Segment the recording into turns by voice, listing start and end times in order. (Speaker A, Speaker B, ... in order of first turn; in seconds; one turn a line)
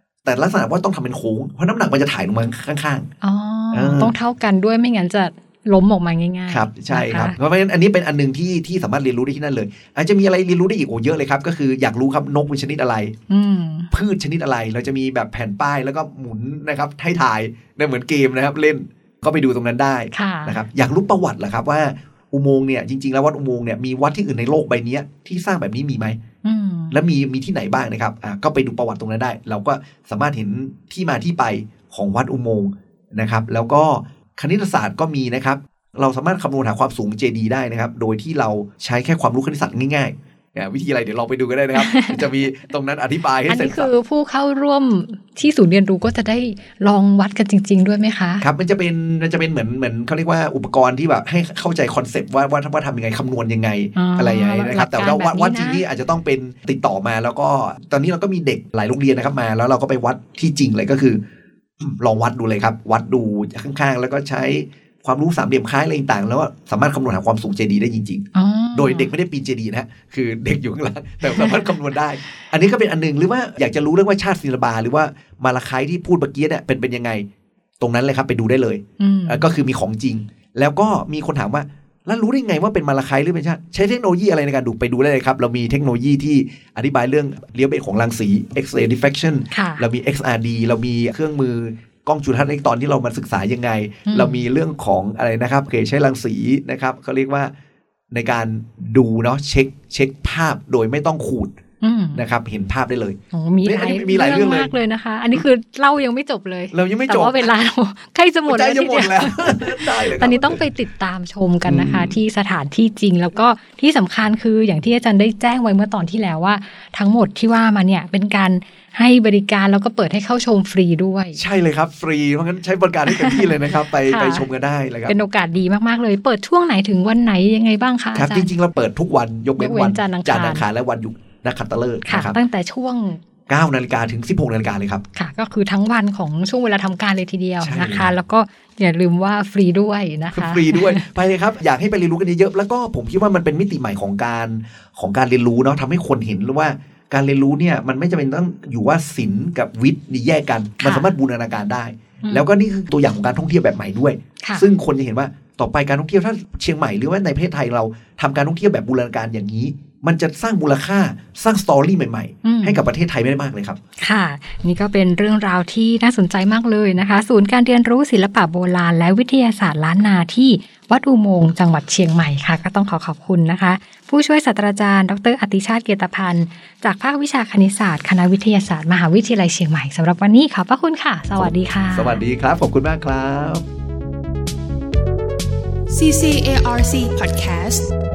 Speaker A: 0.2-3.1
Speaker B: 3.2-7.4
Speaker A: 3.7-4.1
Speaker A: 6.5-13.2
Speaker B: 13.3-13.9
Speaker A: 13.9-26.2
Speaker B: 20.1-20.6
Speaker B: 26.4-27.0
Speaker A: 26.9-43.9
Speaker B: 41.8-42.3
Speaker B: 43.5-48.5
Speaker A: 48.4-61.2
Speaker B: 54.0-55.9
Speaker A: 61.8-77.3
Speaker B: 68.3-69.1
Speaker B: 71.2-71.7
Speaker A: 77.8-97.5
Speaker B: 79.0-79.5
Speaker B: 89.5-89.9
Speaker B: 94.1-94.4
Speaker A: 98.1-101.5
Speaker B: 101.8-102.2
Speaker A: 102.2-104.7
Speaker B: 103.3-121.4
Speaker A: 106.7-107.5
Speaker A: 108.5-110.7
Speaker A: 111.7-112.2
Speaker A: 121.4-125.2
Speaker B: 123.1-124.5
Speaker B: 125.1-128.5
Speaker A: 128.2-132.4
Speaker B: 129.6-130.7
Speaker B: 132.1-133.2
Speaker A: 133.5-135.0
Speaker B: 135.1-141.0
Speaker A: 137.6-138.1
Speaker A: 140.3-163.8
Speaker B: 150.8-151.2
Speaker B: 152.2-152.5
Speaker B: 154.4-154.7
Speaker B: 162.4-162.8
Speaker B: 164.0-182.2
Speaker A: 181.4-183.7
Speaker C: 185.9-187.9